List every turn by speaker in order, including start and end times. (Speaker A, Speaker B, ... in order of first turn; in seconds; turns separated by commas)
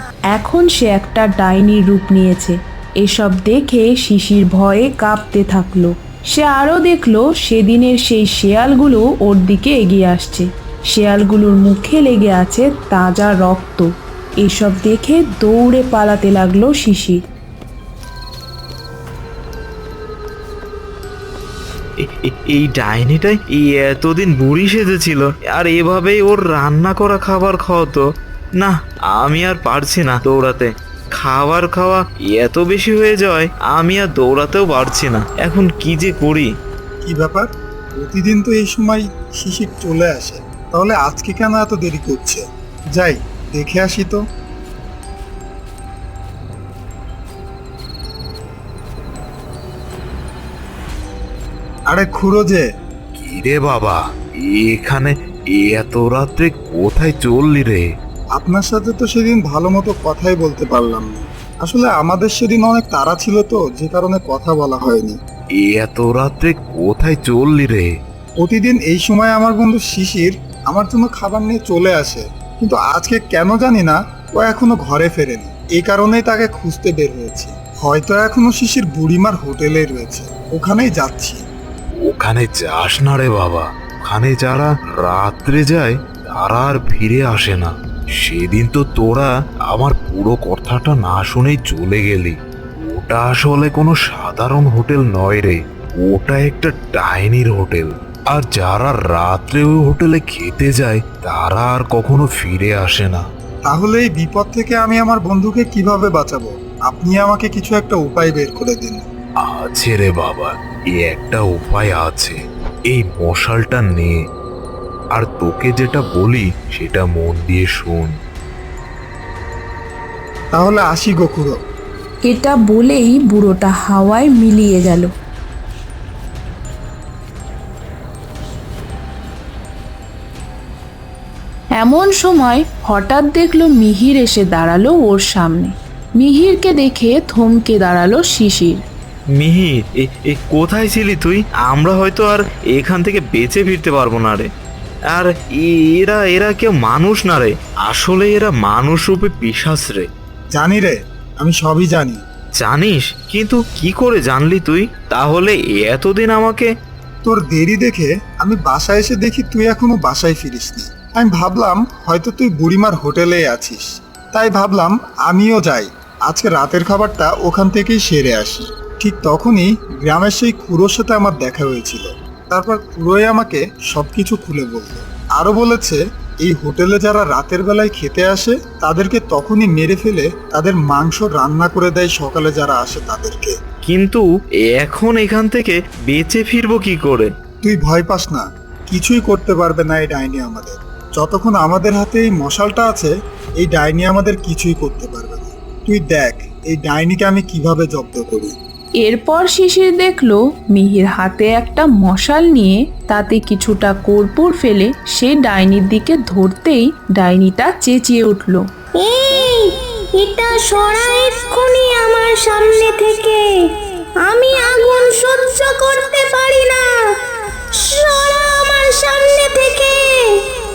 Speaker A: 0.3-13.9, Speaker A: 14.4-17.2, Speaker B: 22.0-28.1, Speaker B: 28.6-36.5, Speaker C: 37.0-42.5, Speaker C: 43.0-44.2, Speaker C: 51.9-52.7, Speaker D: 53.1-57.9, Speaker C: 58.4-65.2, Speaker D: 65.5-68.0, Speaker C: 68.4-81.4, Speaker D: 82.0-103.2, Speaker C: 103.7-109.1, Speaker D: 109.4-112.4, Speaker D: 112.9-114.2, Speaker D: 115.1-118.1, Speaker C: 120.5-121.6, Speaker A: 122.2-125.1, Speaker A: 131.8-138.8, Speaker B: 139.4-144.5, Speaker B: 145.1-150.1, Speaker C: 150.5-152.2, Speaker B: 152.6-156.7, Speaker C: 157.2-183.6, Speaker B: 183.8-187.3, Speaker C: 187.6-198.6, Speaker A: 199.0-208.6, Speaker E: 209.0-213.6, Speaker E: 214.2-217.1, Speaker E: 217.7-220.3